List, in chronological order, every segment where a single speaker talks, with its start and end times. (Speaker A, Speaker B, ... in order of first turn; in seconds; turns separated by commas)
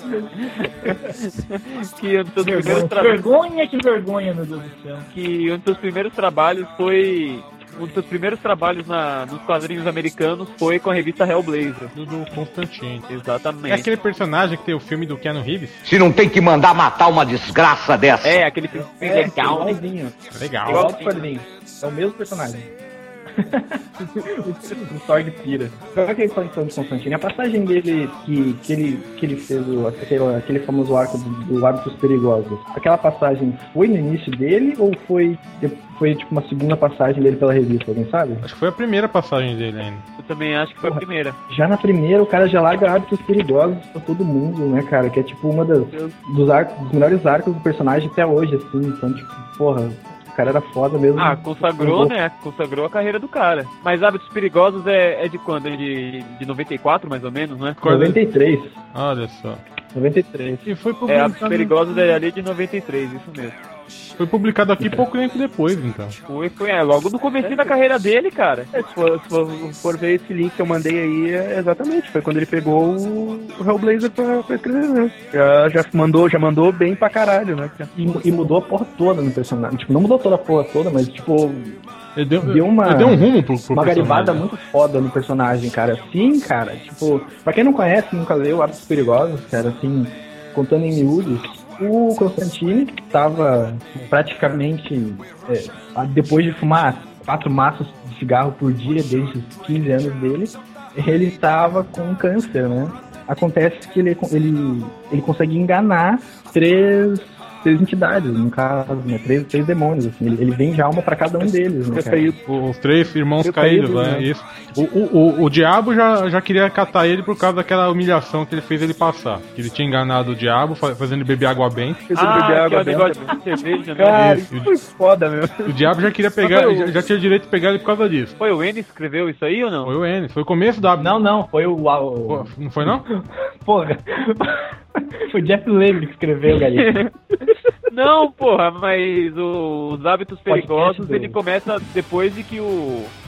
Speaker A: 0.4-3.2, Speaker B: 2.4-5.1, Speaker A: 5.1-11.9, Speaker C: 11.9-13.1, Speaker A: 13.1-13.9, Speaker C: 13.7-15.8, Speaker D: 15.9-18.2, Speaker A: 18.2-19.8, Speaker E: 18.9-22.7, Speaker C: 20.3-20.9, Speaker A: 20.6-21.3, Speaker E: 23.3-38.5, Speaker C: 38.4-40.0, Speaker A: 40.2-41.4, Speaker E: 41.5-52.1, Speaker A: 51.1-57.8, Speaker C: 57.8-58.2, Speaker E: 57.8-58.8, Speaker C: 58.9-59.6, Speaker E: 59.9-60.7, Speaker C: 60.6-62.0, Speaker A: 61.1-63.6, Speaker C: 64.2-66.2, Speaker A: 66.3-68.7, Speaker F: 67.4-67.7, Speaker F: 68.7-77.9, Speaker E: 78.0-81.8, Speaker C: 82.2-84.4, Speaker E: 82.4-112.3, Speaker F: 111.9-112.4, Speaker C: 112.5-122.0, Speaker F: 113.4-114.3, Speaker F: 122.1-123.3, Speaker A: 122.1-124.3, Speaker F: 124.0-125.8, Speaker C: 124.1-124.7, Speaker C: 125.7-128.3, Speaker F: 126.4-127.0, Speaker A: 128.4-129.9, Speaker C: 129.8-131.1, Speaker E: 130.9-137.0, Speaker C: 132.3-133.1, Speaker A: 136.7-137.1, Speaker A: 137.9-143.1, Speaker E: 140.5-141.4